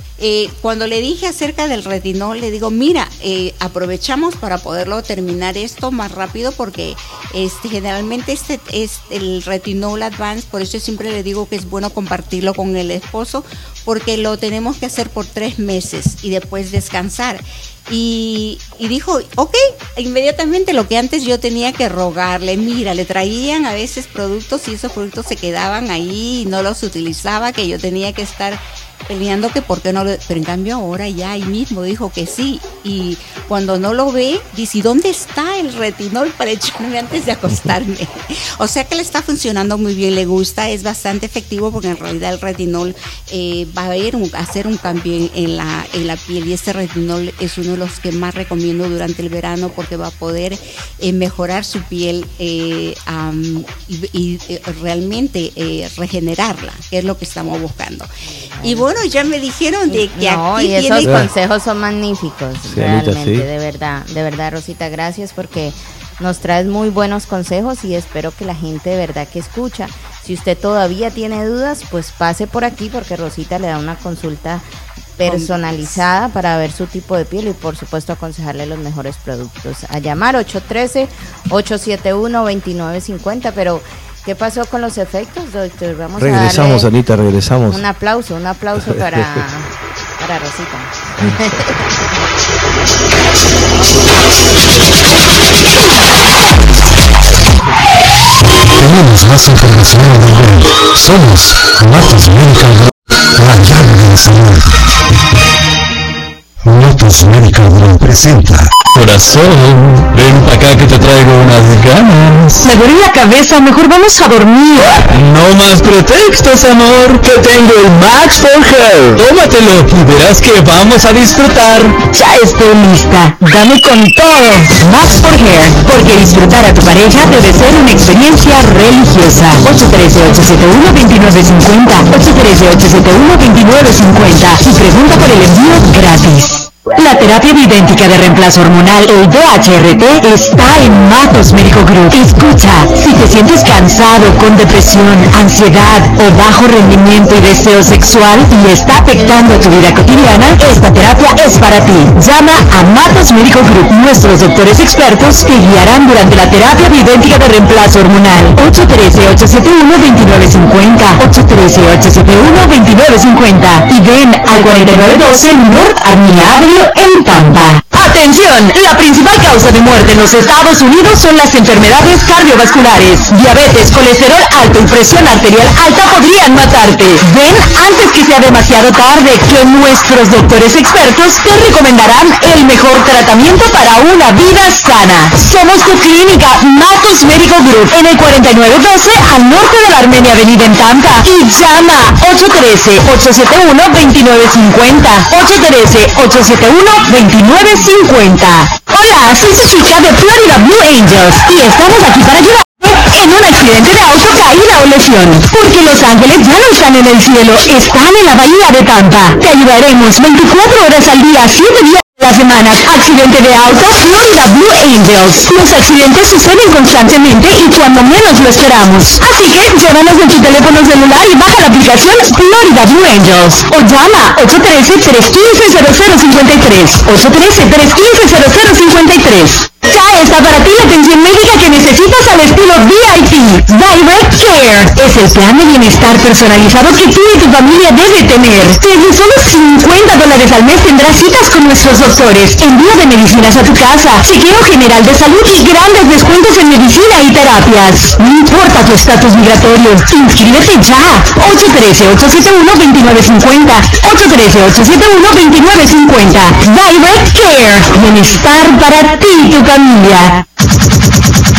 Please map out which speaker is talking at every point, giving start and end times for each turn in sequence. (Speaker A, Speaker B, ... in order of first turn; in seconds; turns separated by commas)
Speaker A: 0.2-61.3, Speaker B: 58.2-58.9, Speaker B: 59.9-74.6, Speaker C: 61.0-61.3, Speaker C: 62.6-63.5, Speaker B: 75.2-86.9, Speaker A: 75.2-76.0, Speaker C: 86.2-87.8, Speaker B: 87.7-91.8, Speaker C: 88.8-89.3, Speaker C: 91.2-91.5, Speaker D: 98.7-104.8, Speaker D: 106.6-108.8, Speaker E: 108.9-112.6, Speaker F: 112.6-115.0, Speaker E: 115.1-122.0, Speaker F: 122.0-260.4